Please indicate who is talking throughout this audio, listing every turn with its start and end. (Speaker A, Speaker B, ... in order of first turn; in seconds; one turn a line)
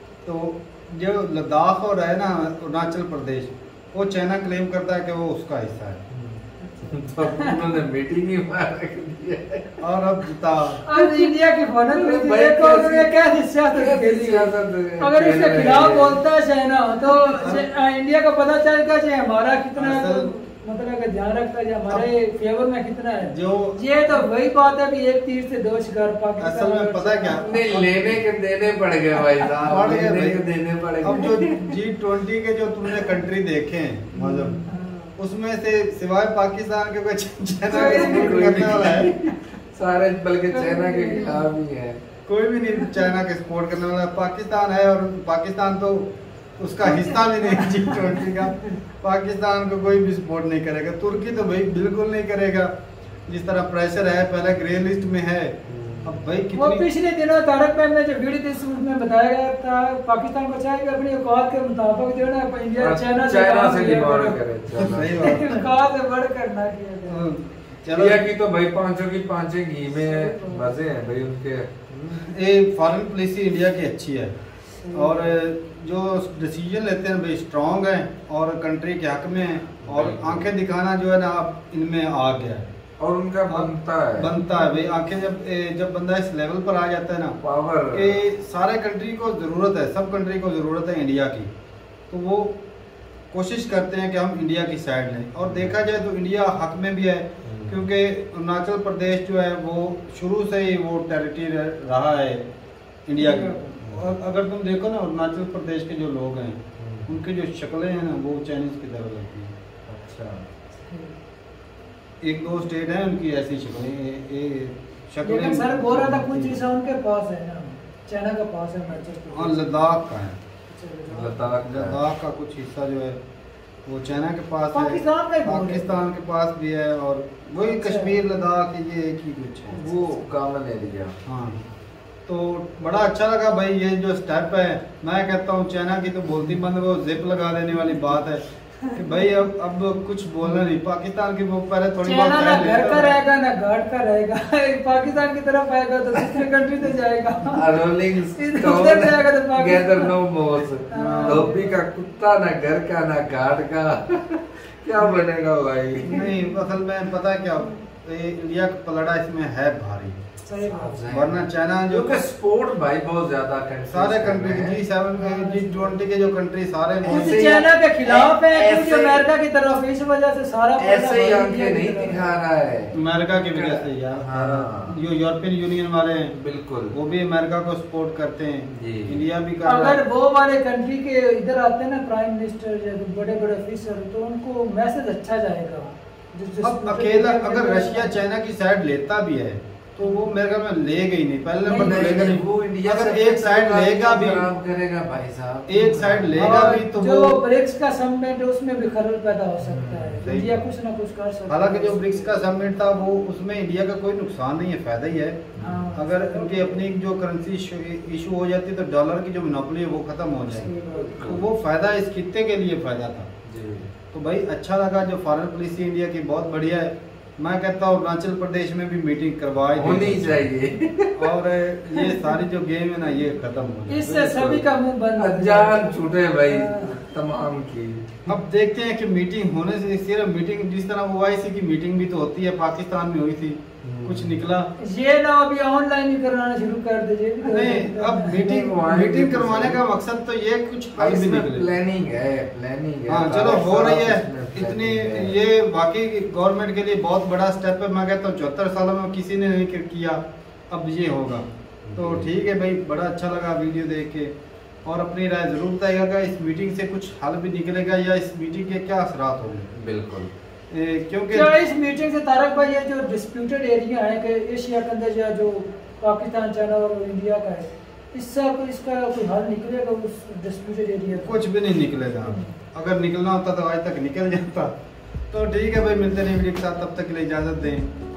Speaker A: 0.2-6.0
Speaker B: 6.1-9.8
Speaker C: 6.6-7.6
Speaker A: 9.8-10.8
Speaker C: 10.8-27.7
Speaker B: 10.9-11.3
Speaker B: 11.9-13.1
Speaker B: 13.7-16.2
Speaker A: 17.3-17.6
Speaker A: 19.8-20.3
Speaker A: 23.2-23.8
Speaker A: 26.4-28.2
Speaker B: 27.4-31.7
Speaker A: 29.6-30.4
Speaker A: 31.0-34.6
Speaker C: 34.1-35.1
Speaker A: 35.2-39.1
Speaker C: 37.7-39.3
Speaker B: 37.7-42.0
Speaker C: 40.5-41.5
Speaker A: 42.3-52.7
Speaker C: 46.9-48.2
Speaker A: 53.3-56.9
Speaker B: 55.7-56.2
Speaker C: 56.5-64.4
Speaker B: 62.8-65.5
Speaker A: 64.8-65.6
Speaker C: 65.2-67.2
Speaker A: 67.1-68.2
Speaker B: 67.9-72.2
Speaker C: 69.9-70.8
Speaker A: 72.3-74.3
Speaker C: 74.8-75.3
Speaker A: 74.9-82.7
Speaker B: 79.8-80.5
Speaker B: 83.0-84.3
Speaker A: 83.5-87.4
Speaker C: 84.4-84.9
Speaker B: 87.4-88.2
Speaker A: 87.9-91.5
Speaker A: 92.1-92.6
Speaker A: 93.3-102.5
Speaker B: 95.4-95.8
Speaker B: 97.5-97.8
Speaker A: 103.1-109.5
Speaker C: 103.2-103.7
Speaker B: 106.8-107.1
Speaker B: 109.9-110.5
Speaker C: 110.8-111.1
Speaker A: 112.2-116.6
Speaker C: 115.2-119.7
Speaker A: 119.3-120.4
Speaker C: 120.7-121.4
Speaker B: 121.1-122.0
Speaker A: 121.6-123.2
Speaker A: 123.9-130.0
Speaker C: 124.7-126.0
Speaker C: 127.6-128.2
Speaker B: 129.7-131.1
Speaker A: 131.2-131.6
Speaker A: 132.3-138.4
Speaker C: 138.8-139.2
Speaker A: 139.0-143.2
Speaker C: 142.0-150.1
Speaker B: 147.5-156.2
Speaker C: 150.9-151.8
Speaker A: 150.9-151.5
Speaker C: 156.1-156.5
Speaker A: 156.1-160.2
Speaker C: 160.4-161.0
Speaker B: 160.6-164.8
Speaker A: 161.1-162.2
Speaker A: 163.9-167.4
Speaker C: 165.1-166.1
Speaker B: 167.0-169.3
Speaker C: 167.1-172.4
Speaker B: 170.8-173.0
Speaker A: 172.9-176.3
Speaker B: 173.6-175.0
Speaker B: 176.3-176.9
Speaker A: 176.9-180.0
Speaker B: 178.7-179.2
Speaker C: 179.6-188.1
Speaker A: 186.6-194.5
Speaker C: 191.6-192.2
Speaker B: 191.7-196.7
Speaker A: 195.7-197.4
Speaker C: 196.4-202.5
Speaker B: 199.6-200.2
Speaker A: 200.2-200.6
Speaker A: 201.5-213.3
Speaker B: 205.6-205.8
Speaker C: 205.6-206.9
Speaker C: 210.5-211.3
Speaker B: 210.9-211.4
Speaker B: 213.5-213.9
Speaker A: 214.1-220.5
Speaker B: 219.8-221.2
Speaker A: 221.2-224.2
Speaker C: 221.9-222.3
Speaker C: 223.9-227.0
Speaker B: 224.1-228.1
Speaker A: 228.3-234.7
Speaker B: 233.8-234.4
Speaker C: 234.8-238.7
Speaker A: 237.4-241.7
Speaker B: 238.5-239.8
Speaker B: 241.0-245.4
Speaker A: 243.1-254.3
Speaker B: 251.8-252.3
Speaker A: 254.8-259.7
Speaker B: 259.8-260.3
Speaker A: 260.7-261.6
Speaker C: 261.3-271.5
Speaker A: 271.1-274.7
Speaker C: 272.0-272.6
Speaker A: 275.3-277.9